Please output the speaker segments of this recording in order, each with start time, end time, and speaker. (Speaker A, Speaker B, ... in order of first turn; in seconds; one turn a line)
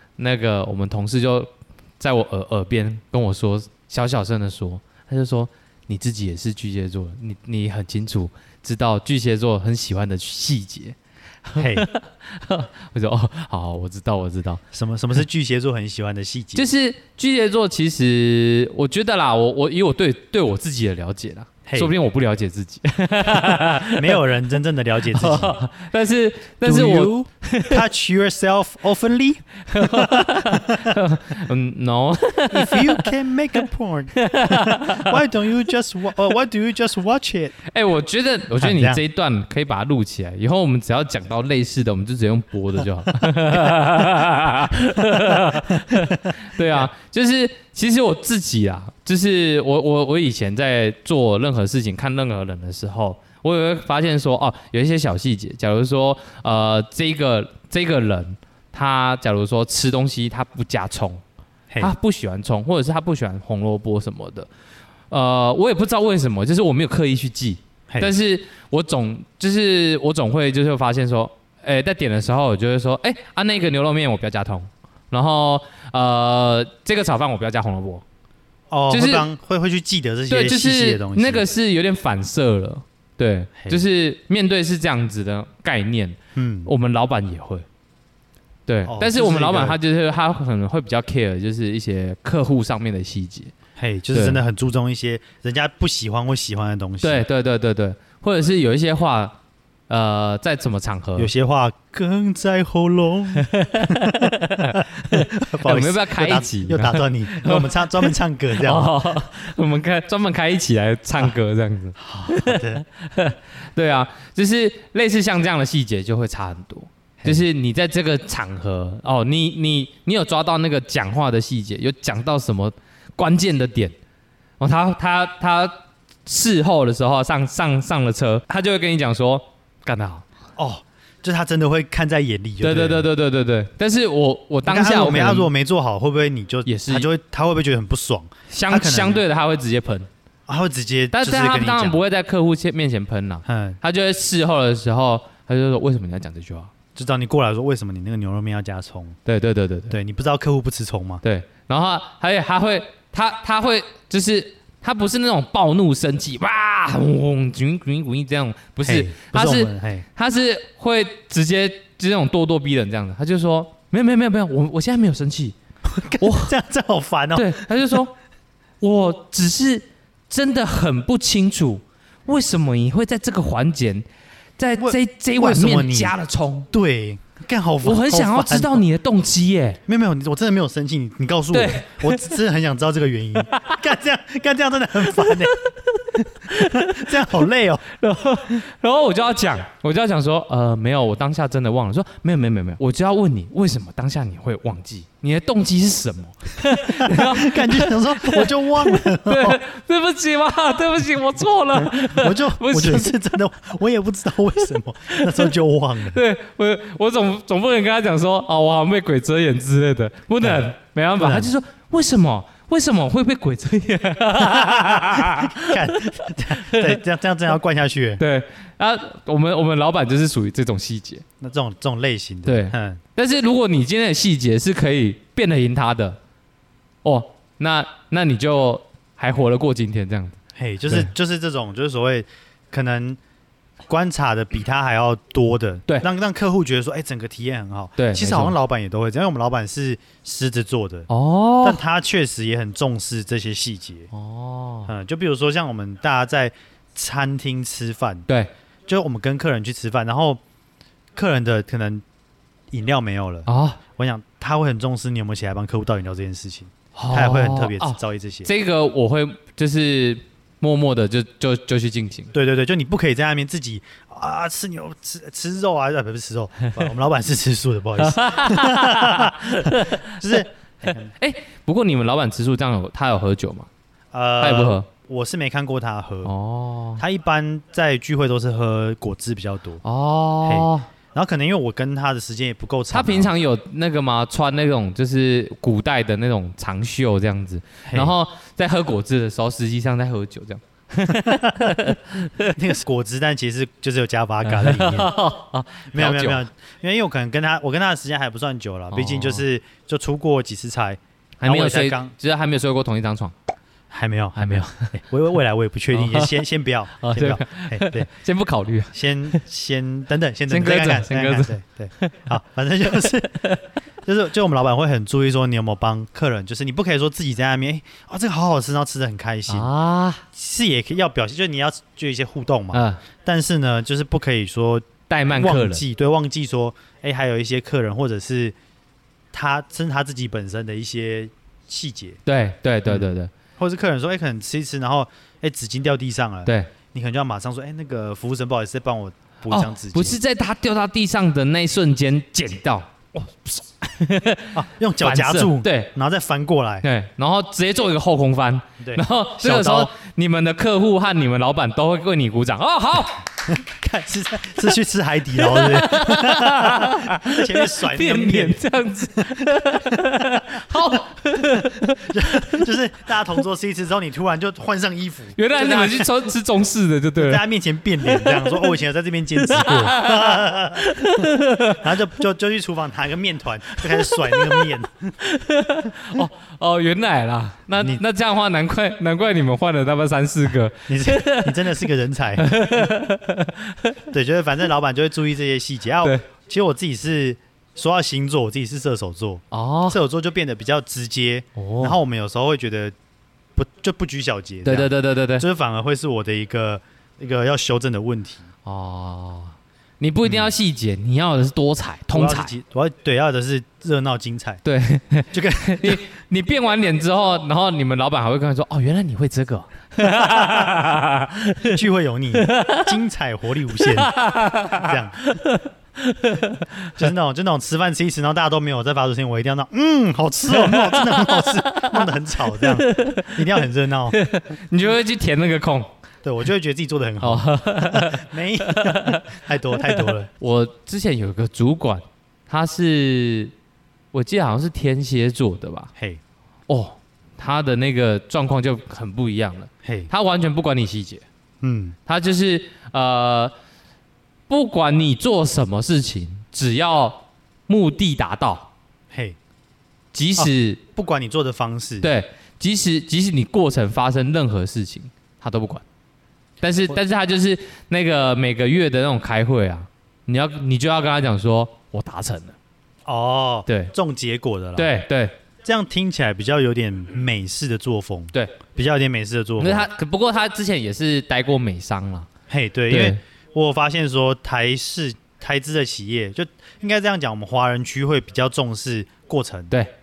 Speaker A: 0.2-14.6
Speaker B: 11.6-11.9
Speaker B: 14.7-16.7
Speaker A: 16.6-24.2
Speaker B: 21.7-21.9
Speaker B: 23.8-25.6
Speaker A: 25.1-27.8
Speaker B: 26.6-31.0
Speaker A: 29.7-33.1
Speaker B: 32.5-37.6
Speaker A: 34.1-35.2
Speaker A: 37.7-61.2
Speaker B: 38.6-39.0
Speaker B: 43.2-43.7
Speaker B: 45.0-46.9
Speaker A: 61.8-64.5
Speaker A: 65.1-78.0
Speaker B: 78.7-81.5
Speaker A: 78.9-79.3
Speaker A: 80.3-87.7
Speaker B: 86.3-86.7
Speaker A: 88.7-93.5
Speaker B: 88.9-89.8
Speaker B: 93.8-97.2
Speaker A: 94.1-94.4
Speaker A: 97.0-99.4
Speaker A: 99.9-101.3
Speaker B: 101.2-108.9
Speaker A: 103.4-124.0
Speaker B: 112.0-112.8
Speaker B: 117.2-117.5
Speaker A: 124.6-130.2
Speaker B: 130.6-133.1
Speaker A: 132.6-135.5
Speaker B: 134.7-139.2
Speaker A: 136.7-137.1
Speaker A: 138.5-140.1
Speaker B: 140.5-142.0
Speaker A: 141.1-146.7
Speaker B: 143.5-143.8
Speaker B: 147.0-149.2
Speaker A: 149.2-149.9
Speaker B: 149.9-151.2
Speaker A: 151.2-165.6
Speaker B: 158.8-160.1
Speaker B: 165.9-168.0
Speaker A: 166.1-166.5
Speaker A: 167.3-168.1
Speaker A: 168.8-174.1
Speaker A: 174.6-176.7
Speaker B: 174.8-176.2
Speaker B: 176.7-178.8
Speaker A: 177.8-179.8
Speaker B: 179.9-185.5
Speaker A: 181.5-182.3
Speaker A: 183.5-183.8
Speaker A: 185.1-187.4
Speaker B: 186.5-187.9
Speaker A: 187.9-203.1
Speaker B: 196.8-199.6
Speaker B: 201.7-206.2
Speaker A: 205.1-205.5
Speaker A: 206.1-217.0
Speaker B: 210.4-210.7
Speaker B: 211.2-211.5
Speaker B: 214.4-218.2
Speaker A: 218.2-221.2
Speaker B: 221.4-223.0
Speaker A: 222.5-226.2
Speaker A: 227.0-230.4
Speaker B: 230.6-233.2
Speaker B: 233.9-241.1
Speaker A: 238.0-238.6
Speaker A: 241.1-241.8
Speaker B: 241.6-244.1
Speaker A: 244.1-244.9
Speaker B: 244.9-248.3
Speaker B: 248.9-250.4
Speaker B: 251.2-252.0
Speaker B: 252.7-258.5
Speaker A: 253.5-253.8
Speaker A: 257.0-262.3
Speaker B: 262.3-271.1
Speaker A: 268.0-273.7
Speaker B: 274.1-276.3
Speaker A: 274.4-274.9
Speaker A: 276.2-277.0
Speaker B: 277.0-279.8
Speaker A: 279.8-280.9
Speaker B: 280.4-283.3
Speaker A: 282.9-292.6
Speaker B: 287.9-288.1
Speaker B: 291.2-295.1
Speaker A: 294.5-296.4
Speaker B: 295.9-302.1
Speaker A: 298.9-299.4
Speaker A: 301.4-303.3
Speaker B: 303.9-308.1
Speaker A: 304.4-304.9
Speaker A: 305.9-306.4
Speaker A: 307.0-309.4
Speaker B: 308.9-313.4
Speaker A: 310.5-312.1
Speaker A: 313.0-313.6
Speaker B: 314.1-319.7
Speaker A: 319.5-320.2
Speaker B: 320.3-328.6
Speaker A: 322.7-323.0
Speaker A: 325.1-325.8
Speaker B: 329.3-332.2
Speaker A: 332.3-333.3
Speaker B: 332.9-340.2
Speaker A: 339.5-345.9
Speaker B: 344.5-346.9
Speaker A: 346.8-353.3
Speaker B: 348.8-349.9
Speaker B: 353.5-358.6
Speaker A: 355.4-362.7
Speaker B: 359.2-360.4
Speaker B: 361.4-366.2
Speaker A: 365.4-367.4
Speaker B: 367.2-375.1
Speaker A: 368.1-368.6
Speaker A: 369.4-371.9
Speaker A: 373.8-374.7
Speaker A: 375.2-381.8
Speaker B: 377.8-378.0
Speaker B: 380.9-382.5
Speaker A: 382.4-384.0
Speaker B: 384.1-392.9
Speaker A: 389.5-390.0
Speaker A: 391.6-392.0
Speaker B: 393.6-398.5
Speaker A: 394.6-395.4
Speaker A: 398.6-402.6
Speaker B: 400.2-400.5
Speaker B: 402.1-404.6
Speaker A: 404.6-411.8
Speaker B: 405.3-406.0
Speaker B: 410.0-410.9
Speaker B: 411.6-414.2
Speaker A: 412.3-412.9
Speaker A: 413.8-416.9
Speaker B: 414.7-415.2
Speaker B: 417.0-424.2
Speaker A: 420.5-423.4
Speaker A: 424.1-425.9
Speaker B: 426.2-430.3
Speaker A: 427.2-429.2
Speaker A: 429.9-433.5
Speaker A: 434.1-435.9
Speaker B: 436.0-436.2
Speaker A: 436.7-441.2
Speaker B: 439.8-440.1
Speaker B: 441.6-442.0
Speaker A: 442.1-443.5
Speaker A: 444.5-448.7
Speaker B: 449.1-449.4
Speaker A: 450.1-450.8
Speaker B: 450.4-452.1
Speaker A: 452.0-455.8
Speaker A: 456.6-462.6
Speaker B: 463.1-464.9
Speaker A: 463.7-463.9
Speaker A: 464.8-465.4
Speaker B: 465.6-469.9
Speaker A: 469.6-472.3
Speaker B: 472.5-479.7
Speaker A: 472.9-473.2